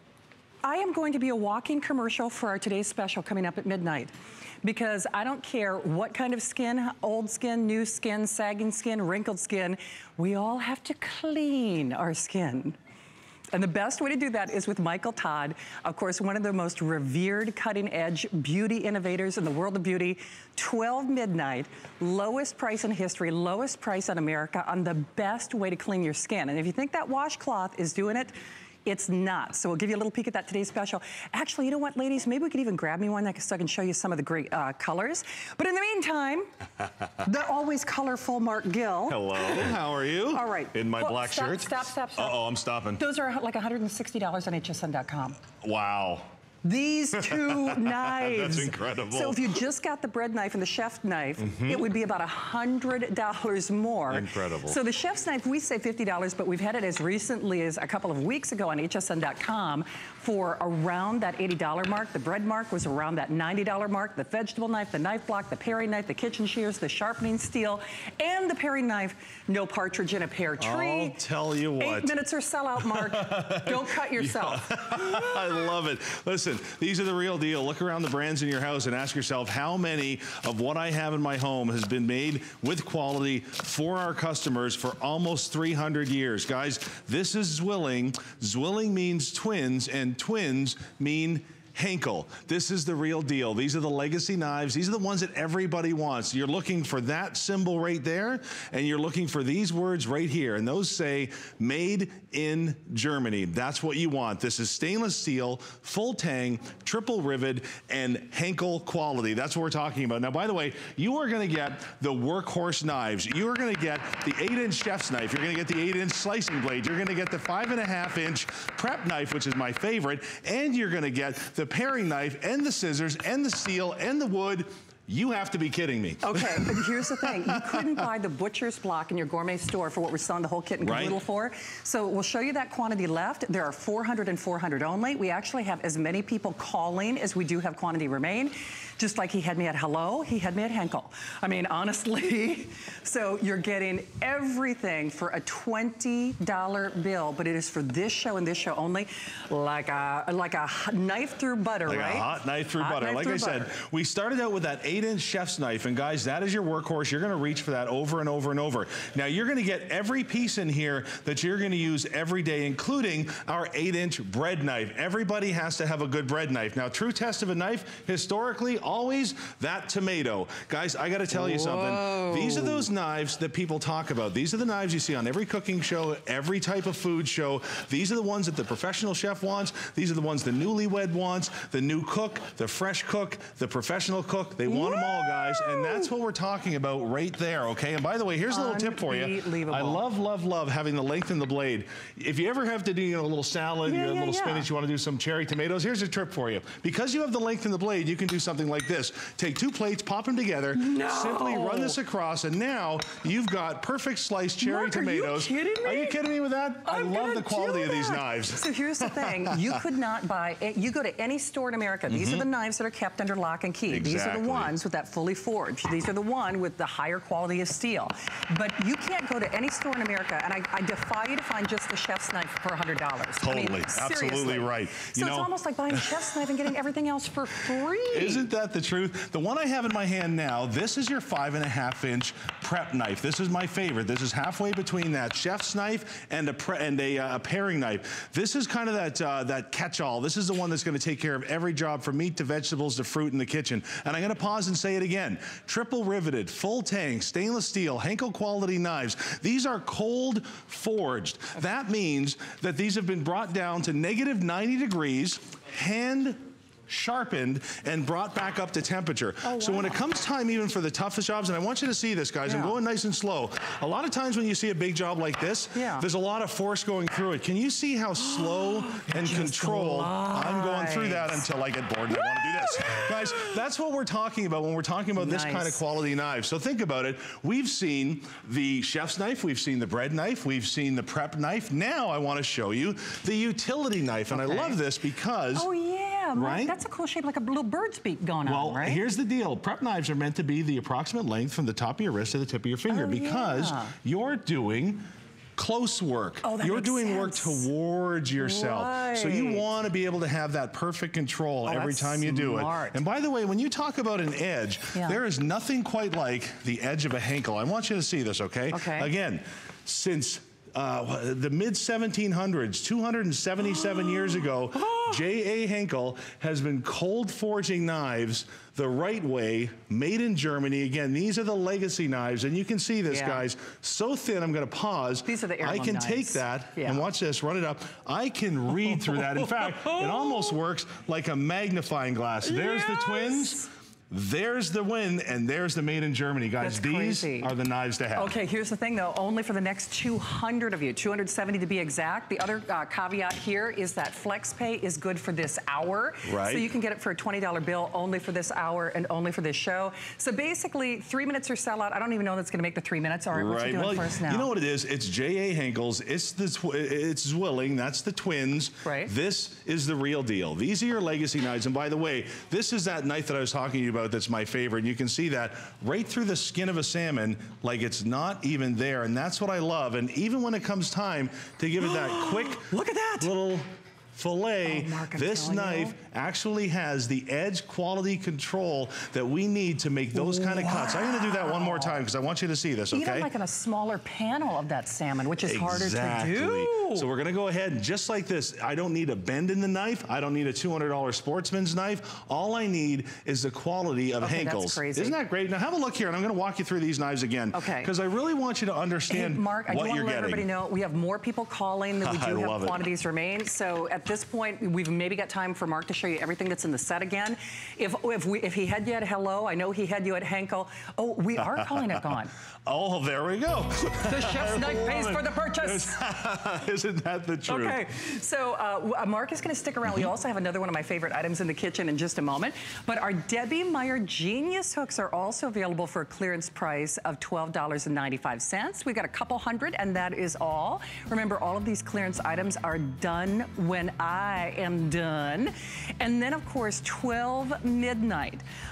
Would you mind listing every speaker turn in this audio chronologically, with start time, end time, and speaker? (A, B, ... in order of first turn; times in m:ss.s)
0:00.6-0:04.1 A
0:04.6-0:12.8 A
0:13.5-0:36.5 A
0:37.2-0:39.7 A
0:39.1-0:43.0 B
0:40.3-0:42.4 A
0:43.0-0:45.4 A
0:45.6-0:46.3 B
0:46.6-1:11.2 A
0:47.1-0:49.6 B
0:51.4-0:51.8 B
0:54.1-0:54.8 B
1:10.6-1:12.2 B
1:11.8-1:15.3 A
1:12.9-2:08.0 B
2:06.2-2:33.7 A
2:10.8-2:11.2 B
2:31.9-3:29.7 B
2:51.3-2:52.9 A
3:04.7-3:06.1 A
3:08.5-3:10.0 A
3:13.9-3:14.7 A
3:20.8-3:22.0 A
3:24.6-3:26.2 A
3:26.8-3:48.4 A
3:32.1-3:32.4 B
3:33.9-3:34.8 B
3:43.4-3:46.1 B
3:48.1-4:45.7 B
4:19.4-4:20.0 A
4:22.5-4:22.8 A
4:25.7-4:26.0 A
4:28.2-4:31.4 A
4:32.2-4:33.6 A
4:35.2-4:35.8 A
4:44.3-4:44.8 A
4:45.5-4:49.0 A
4:46.4-4:46.8 B
4:48.4-4:55.0 B
4:52.9-4:54.0 A
4:55.6-5:38.4 B
4:56.4-4:57.7 A
4:58.4-4:59.6 A
5:01.7-5:03.0 A
5:08.7-5:09.1 A
5:14.8-5:15.2 A
5:23.1-5:23.4 A
5:25.2-5:27.1 A
5:28.8-5:30.6 A
5:32.4-5:33.7 A
5:36.6-5:37.5 A
5:38.2-5:54.5 A
5:46.2-5:46.7 B
5:53.3-6:23.3 B
5:58.8-5:59.1 A
6:11.8-6:13.3 A
6:14.6-6:16.0 A
6:20.1-6:22.0 A
6:22.9-6:27.1 A
6:25.4-6:40.5 B
6:34.2-6:35.2 A
6:37.5-6:37.9 A
6:39.1-6:52.3 A
6:42.0-6:42.9 B
6:52.7-6:57.8 B
6:54.1-6:56.0 A
6:57.5-7:18.4 A